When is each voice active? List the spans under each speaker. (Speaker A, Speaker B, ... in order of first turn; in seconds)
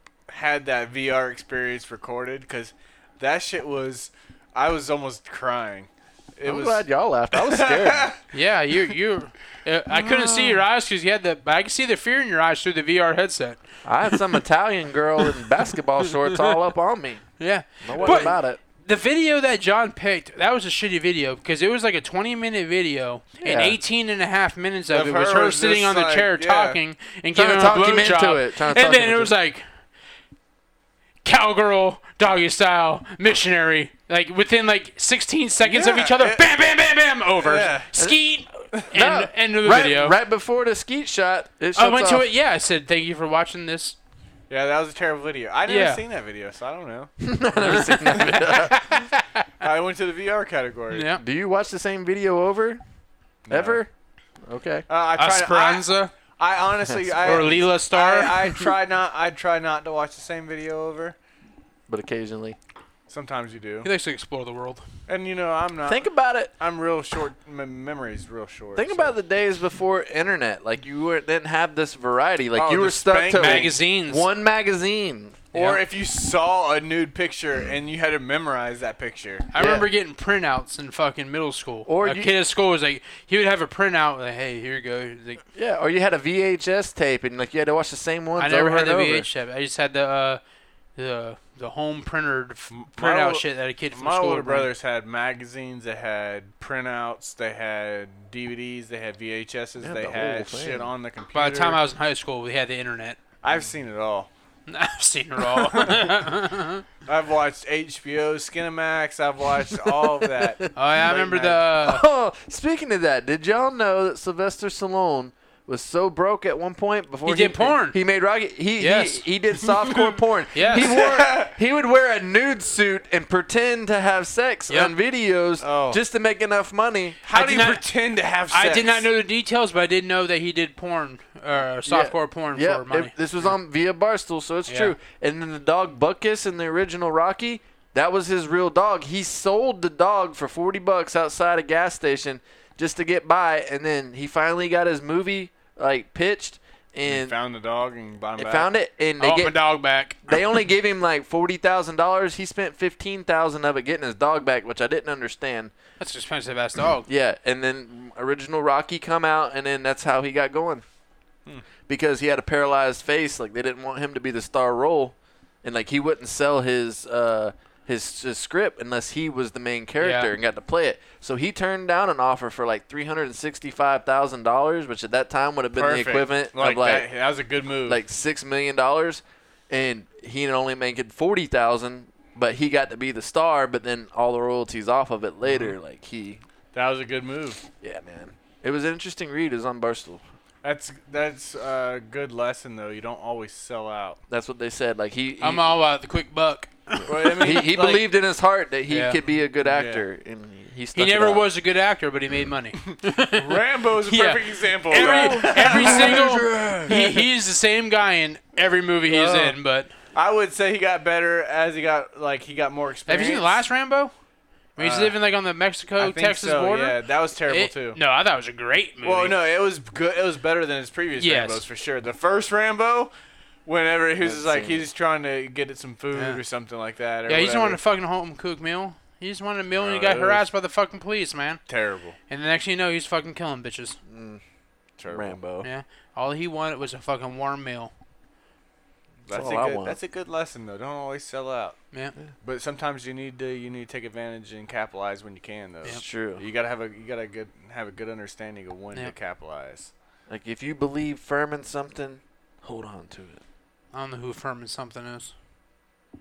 Speaker A: 0.3-8.2, 17.9-18.3, 24.9-26.8, 35.6-36.5, 37.4-37.9, 44.5-47.1, 49.6-51.1, 53.5-53.8, 54.9-61.1, 63.1-63.9, 65.1-66.0, 66.6-69.1, 72.5-73.8, 75.5-79.5, 92.7-101.8, 103.4-104.3, 105.6-106.1, 107.0-111.6, 119.9-120.2, 120.7-121.5, 125.6-126.0, 127.3-129.1, 147.1-148.7, 175.7-178.0, 185.4-185.7, 186.7-187.6, 190.6-194.2, 197.1-198.1, 199.6-200.0, 202.8-206.9, 209.1-209.6, 210.1-213.6, 214.8-215.2, 216.0-218.0, 219.0-223.1, 223.7-227.8, 229.8-230.5, 231.7-232.2, 235.0-235.4, 239.3-241.8, 242.4-249.9
Speaker B: 6.4-8.1, 9.9-10.7, 13.8-17.2, 17.8-18.6, 23.4-23.8, 27.3-29.3, 38.0-42.3, 47.2-48.8, 51.2-52.8, 53.5-53.9, 54.4-54.9, 61.9-62.6, 65.9-66.5, 68.7-75.4, 79.5-79.9, 81.9-82.3, 85.5-89.3, 99.8-100.9, 109.7-127.6, 131.9-147.4, 148.4-149.6, 150.2-155.7, 157.1-160.8, 161.9-177.1, 177.9-186.4, 187.8-190.2, 194.3-195.7, 197.2-201.5, 204.9-207.1, 224.2-224.8, 234.1-234.4, 235.1-235.7, 239.3-240.0, 245.9-246.4, 250.3-253.4
Speaker C: 8.3-13.6, 16.2-16.5, 17.4-29.6, 31.2-40.2, 41.8-44.0, 45.7-46.0, 47.6-49.5, 50.9-51.2, 55.2-56.1, 57.2-58.6, 63.8-64.8, 73.3-74.3, 75.5-75.8, 79.5-85.4, 88.4-90.4, 91.0-94.7, 101.3-103.2, 104.7-106.8, 110.7-112.0, 117.3-118.0, 118.8-119.3, 120.5-120.9, 127.3-127.8, 128.5-133.1, 134.7-134.9, 149.2-150.3, 156.0-157.1, 170.0-170.3, 195.4-197.3, 198.9-199.2, 200.9-209.9, 213.1-214.1, 214.8-219.4, 221.2-221.6, 227.3-231.6, 232.3-234.0, 235.6-237.9, 253.9-255.3